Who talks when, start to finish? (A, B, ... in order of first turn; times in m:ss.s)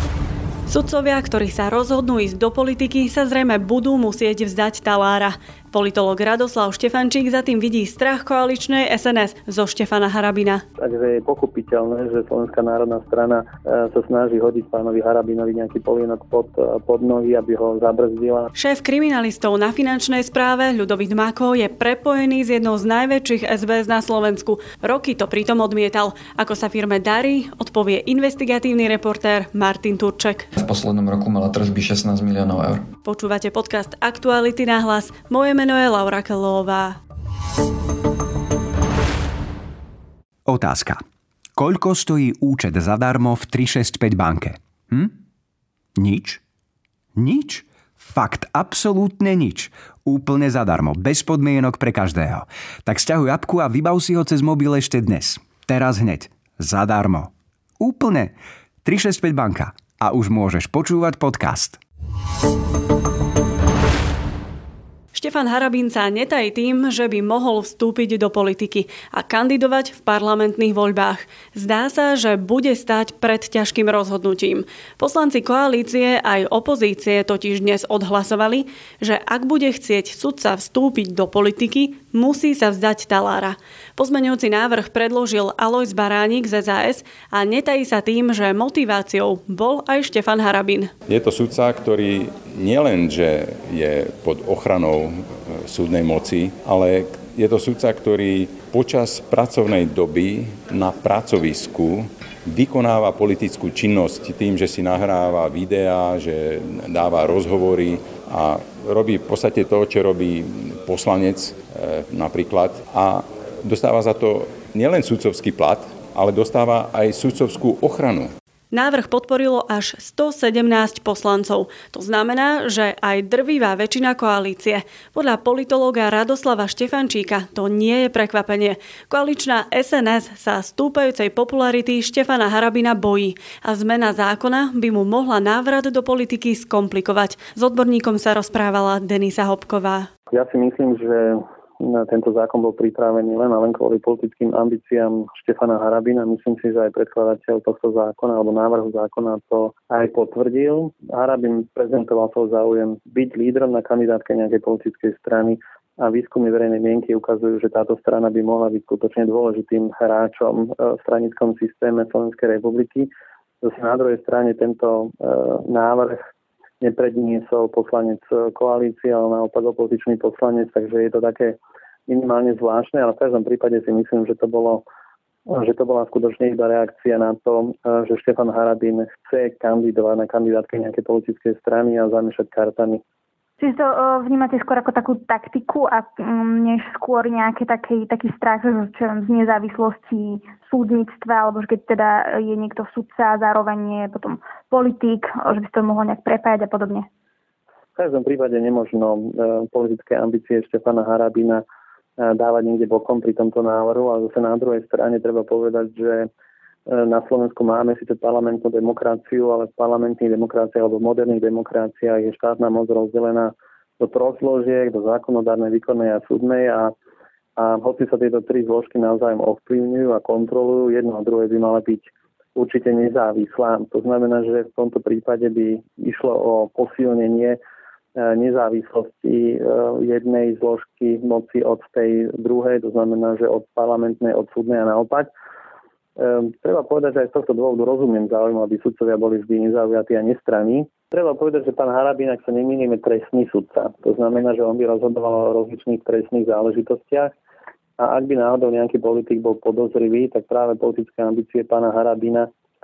0:00.7-0:10.6 A
0:10.8-0:18.5 B
0:18.5-0:30.5 A
0:30.5-0:32.8 C
0:33.0-0:37.0 A
0:40.4-0:41.0 D
0:41.6-0:45.1 D
0:46.0-0:46.4 D
0:47.2-1:01.8 D
1:05.1-1:30.9 A
1:31.1-1:58.3 E
1:58.7-2:20.1 A
2:20.3-2:43.1 B
2:43.6-2:46.3 B
2:46.8-2:54.8 B
2:55.5-3:03.0 B
3:03.6-3:17.0 F
3:18.0-3:21.6 B
3:22.2-3:26.3 B
3:26.9-3:36.9 B
3:37.6-3:47.6 B
3:48.2-3:55.3 B
3:56.2-4:07.3 B
4:08.0-4:12.5 B